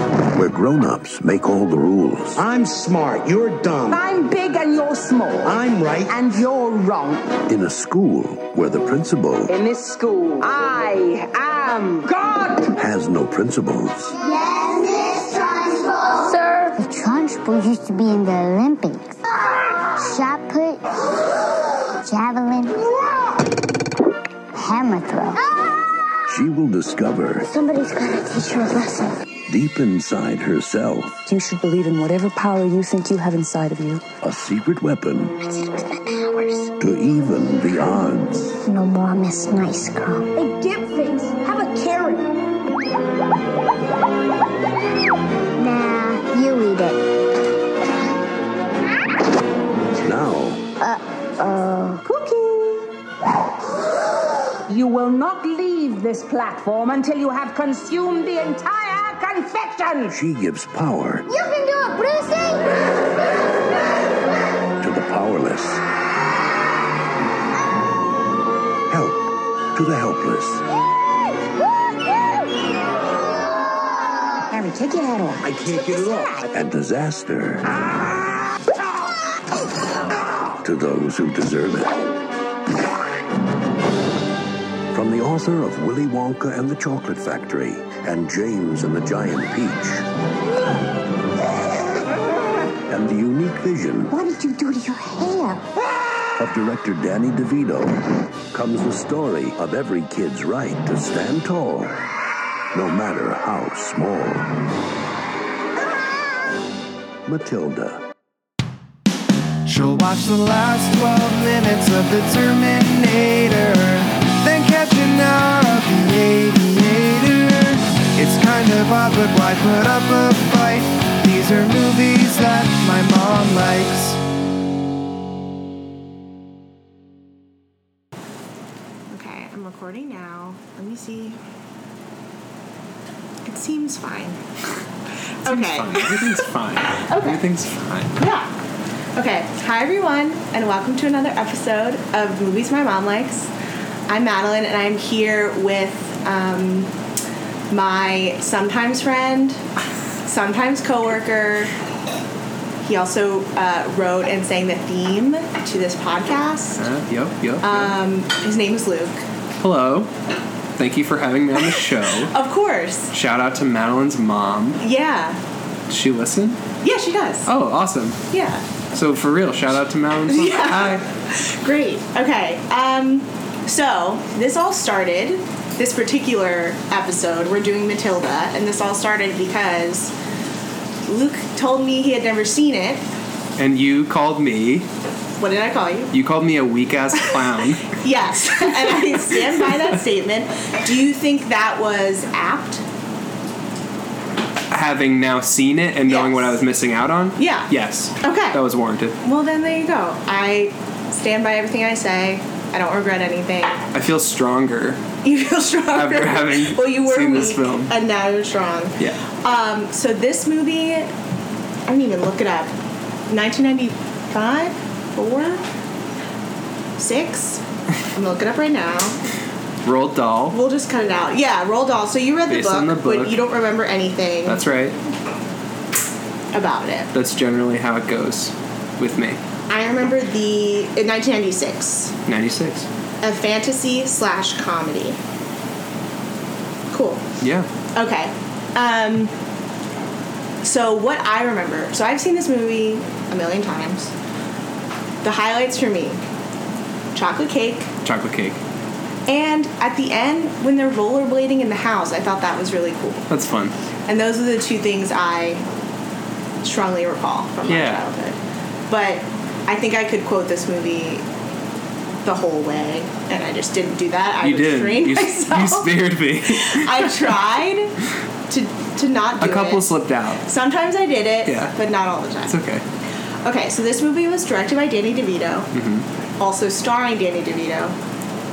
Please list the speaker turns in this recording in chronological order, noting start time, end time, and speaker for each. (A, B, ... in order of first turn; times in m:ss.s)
0:00.3-0:02.4 A
0:02.4-0:04.0 B
0:03.9-0:07.3 C
0:05.4-0:06.1 B
0:07.5-0:09.5 A
0:09.5-0:12.7 C
0:12.7-0:14.2 A
0:14.2-0:19.2 D
0:19.8-0:20.8 D
0:21.9-0:22.9 D
0:24.5-0:25.4 D
0:26.2-0:27.5 A
0:27.5-0:29.2 D
0:29.5-0:31.2 A
0:31.2-0:34.1 E
0:34.2-0:35.4 A
0:35.4-0:36.7 D
0:36.8-0:38.6 A
0:38.6-0:40.3 D
0:40.3-0:42.3 C
0:45.6-0:47.0 D
0:49.9-0:50.6 A
0:50.8-0:52.0 D
0:52.1-0:52.8 C
0:54.7-1:00.2 C
1:00.1-1:01.3 A
1:01.3-1:02.9 D
1:04.8-1:05.8 A
1:08.9-1:10.6 A
1:14.5-1:15.4 E
1:15.4-1:16.4 B
1:16.5-1:17.8 A
1:20.6-1:22.0 A
1:24.9-1:30.1 A
1:32.9-1:34.1 A
1:34.1-1:35.6 D
1:36.4-1:42.0 A
1:42.7-1:44.5 A
1:47.2-1:48.0 A
1:49.6-2:04.2 F
2:09.1-2:11.4 G
2:13.4-2:14.4 G
2:15.4-2:16.4 G
2:15.4-2:18.2 H
2:16.9-2:17.4 G
2:18.2-2:18.5 G
2:19.2-2:23.5 G
2:24.1-2:26.9 G
2:27.7-2:29.6 G
2:30.2-2:31.7 G
2:32.8-2:36.8 G
2:36.8-2:37.9 H
2:37.6-2:39.2 G
2:39.6-2:40.1 H
2:40.8-2:42.3 H
2:41.6-2:43.1 G
2:43.1-2:44.8 H
2:44.8-2:45.4 G
2:45.9-2:46.6 H
2:46.8-2:47.5 G
2:47.5-2:48.2 H
2:48.3-2:48.6 G
2:48.9-2:51.0 H
2:50.3-3:00.1 G
3:01.1-3:03.0 G
3:03.6-3:04.8 H
3:05.4-3:06.2 G
3:06.1-3:08.0 H
3:07.9-3:12.8 G
3:08.6-3:09.9 H
3:14.7-3:19.2 H
3:16.1-3:16.6 G
3:17.4-3:18.6 G
3:19.2-3:23.8 G
3:23.9-3:25.0 H
3:25.2-3:31.1 G
3:25.9-3:27.9 H
3:31.9-3:32.7 G
3:33.3-3:35.6 G
3:37.0-3:39.2 G
3:39.8-3:40.6 H
3:40.5-3:44.6 G
3:42.5-3:43.4 H
3:44.4-3:45.0 H
3:46.5-3:47.1 G
3:47.1-3:49.4 H
3:49.7-3:52.1 G
3:52.3-3:52.8 H
3:53.2-3:55.2 G
3:56.9-3:57.2 G
3:57.4-3:57.7 H
3:57.9-3:59.3 G
4:00.6-4:04.1 G
4:05.2-4:06.2 G
4:07.1-4:07.9 G
4:08.0-4:08.6 H
4:09.3-4:13.3 G
4:13.3-4:13.7 H
4:14.1-4:15.6 G
4:16.6-4:18.4 G
4:17.7-4:18.0 H
4:18.9-4:21.2 G
4:22.2-4:27.9 G
4:24.4-4:27.3 H
4:28.5-4:29.9 G
4:29.4-4:30.4 H
4:30.4-4:32.6 G
4:31.5-4:31.7 H
4:32.5-4:32.8 H
4:33.4-4:35.7 G
4:35.7-4:36.0 H
4:36.4-4:37.9 G